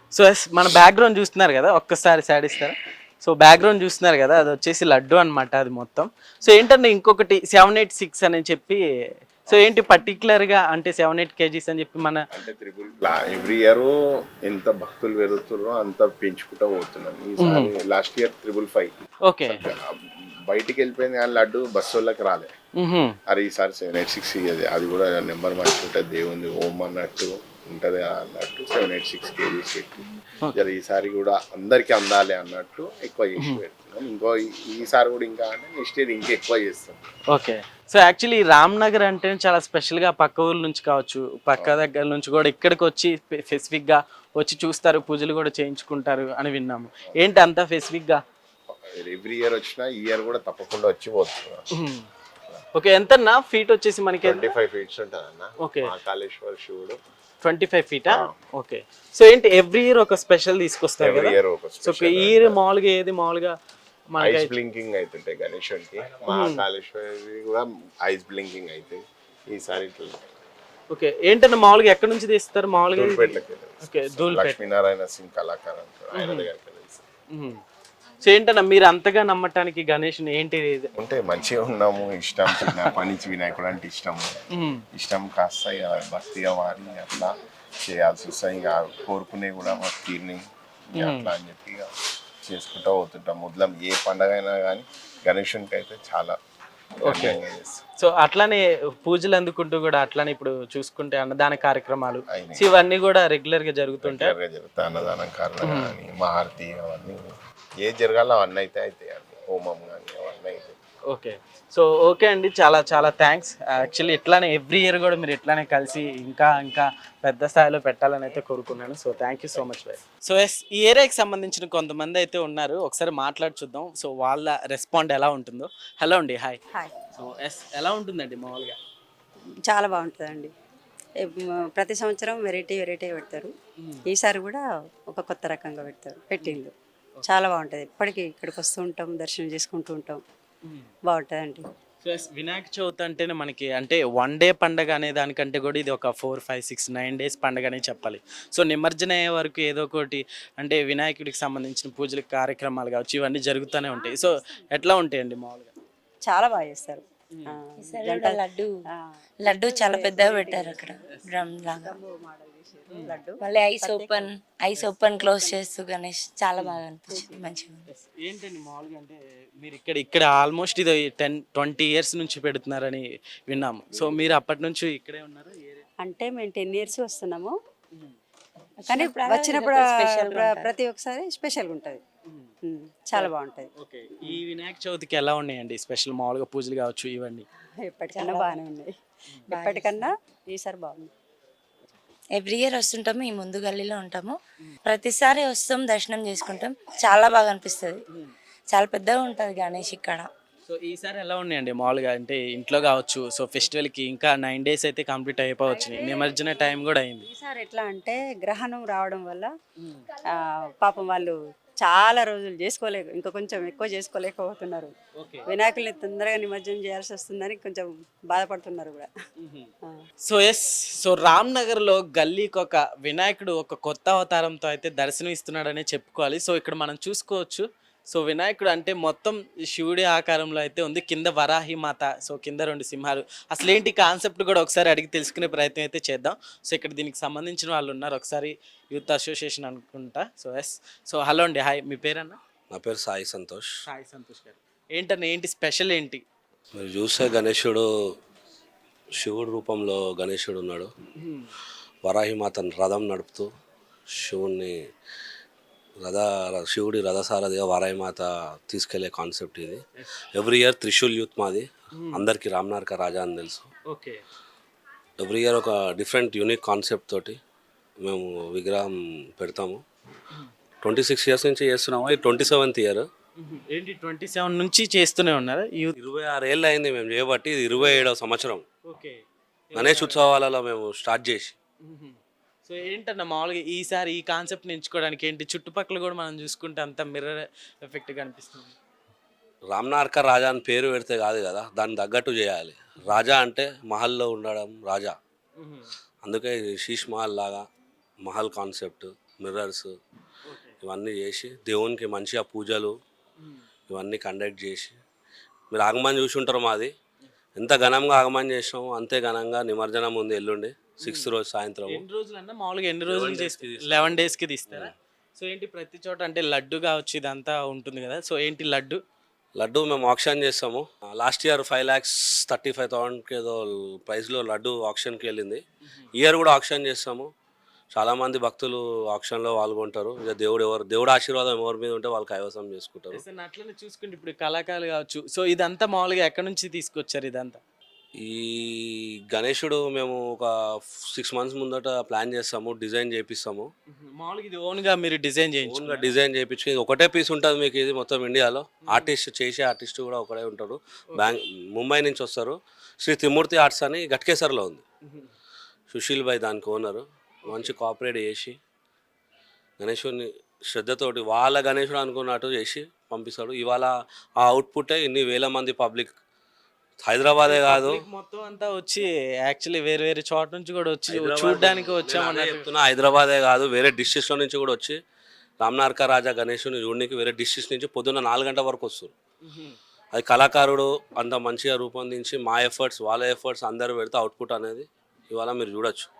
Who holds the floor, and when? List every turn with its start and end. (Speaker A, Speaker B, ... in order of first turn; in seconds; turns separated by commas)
Speaker A: 0.1-8.8, Speaker A: 9.5-12.2, Speaker B: 12.3-13.9, Speaker B: 14.4-20.0, Speaker A: 17.4-17.7, Speaker A: 19.2-19.6, Speaker B: 20.5-22.5, Speaker A: 22.8-23.2, Speaker B: 23.3-37.1, Speaker A: 37.3-48.2, Speaker B: 48.7-51.7, Speaker A: 51.7-52.0, Speaker A: 52.7-54.4, Speaker B: 54.2-57.0, Speaker A: 55.6-55.9, Speaker A: 57.4-63.5, Speaker B: 58.1-58.3, Speaker B: 61.0-62.6, Speaker A: 64.1-64.5, Speaker B: 64.2-70.3, Speaker A: 66.3-66.6, Speaker A: 70.9-74.6, Speaker B: 72.9-77.0, Speaker A: 76.2-76.5, Speaker A: 77.3-77.6, Speaker A: 78.2-80.9, Speaker B: 81.0-84.4, Speaker A: 84.5-84.8, Speaker B: 84.9-90.4, Speaker B: 90.9-91.9, Speaker A: 91.0-91.3, Speaker B: 92.4-96.4, Speaker B: 97.0-97.8, Speaker A: 97.0-97.4, Speaker A: 98.0-104.3, Speaker B: 102.3-102.7, Speaker B: 104.0-107.2, Speaker A: 105.6-105.9, Speaker B: 107.8-110.8, Speaker A: 111.1-126.6, Speaker A: 127.1-128.8, Speaker C: 129.7-130.5, Speaker C: 131.2-133.5, Speaker C: 134.1-140.2, Speaker A: 140.6-140.9, Speaker C: 141.1-141.7, Speaker A: 142.0-155.7, Speaker C: 156.2-161.0, Speaker A: 157.3-157.6, Speaker D: 157.8-158.8, Speaker D: 159.4-161.9, Speaker C: 161.7-165.6, Speaker D: 163.4-167.8, Speaker A: 166.6-166.8, Speaker C: 167.1-167.5, Speaker A: 167.9-175.8, Speaker C: 176.0-177.6, Speaker D: 178.8-180.7, Speaker C: 178.9-182.0, Speaker C: 182.6-183.7, Speaker A: 183.1-187.4, Speaker C: 187.8-188.9, Speaker D: 188.1-188.6, Speaker C: 189.5-191.1, Speaker D: 189.5-190.1, Speaker D: 192.3-198.0, Speaker D: 198.7-200.3, Speaker A: 200.6-207.3, Speaker C: 205.9-206.6, Speaker C: 207.2-209.5, Speaker A: 209.8-210.0, Speaker C: 210.3-214.9, Speaker A: 215.2-215.5, Speaker C: 215.4-219.1, Speaker A: 219.4-219.7, Speaker A: 220.2-242.4, Speaker E: 242.7-243.7, Speaker A: 243.8-246.2, Speaker E: 246.8-247.8, Speaker E: 249.2-250.9, Speaker A: 251.2-251.5, Speaker E: 252.0-253.5, Speaker E: 254.1-254.8, Speaker E: 256.0-259.8, Speaker E: 260.3-263.7, Speaker A: 261.9-262.2, Speaker A: 263.9-264.2, Speaker E: 265.2-267.4, Speaker E: 268.0-269.8, Speaker E: 270.8-273.1, Speaker A: 273.4-275.9, Speaker E: 276.0-278.6, Speaker A: 277.7-278.1, Speaker A: 278.9-279.2, Speaker A: 279.7-280.4, Speaker E: 279.7-281.5, Speaker A: 281.8-288.8, Speaker E: 289.7-295.1, Speaker A: 295.6-295.9, Speaker E: 296.2-297.6, Speaker E: 298.2-299.9, Speaker A: 300.4-300.8, Speaker E: 300.8-302.9, Speaker E: 303.9-304.9, Speaker E: 305.7-306.9, Speaker E: 307.6-312.0, Speaker A: 311.0-311.3, Speaker A: 311.9-319.0, Speaker E: 313.1-314.9, Speaker E: 319.6-325.6, Speaker E: 326.1-327.3, Speaker E: 327.9-333.2, Speaker A: 333.1-337.6, Speaker E: 338.2-340.5, Speaker E: 341.1-343.7, Speaker A: 343.9-346.1, Speaker E: 345.6-354.8, Speaker A: 348.8-349.1, Speaker E: 355.9-358.6, Speaker A: 357.4-357.7, Speaker E: 359.8-366.1, Speaker E: 367.0-368.0, Speaker A: 367.4-372.7, Speaker E: 371.1-375.0, Speaker E: 375.6-379.1, Speaker A: 379.4-379.8, Speaker E: 380.1-386.1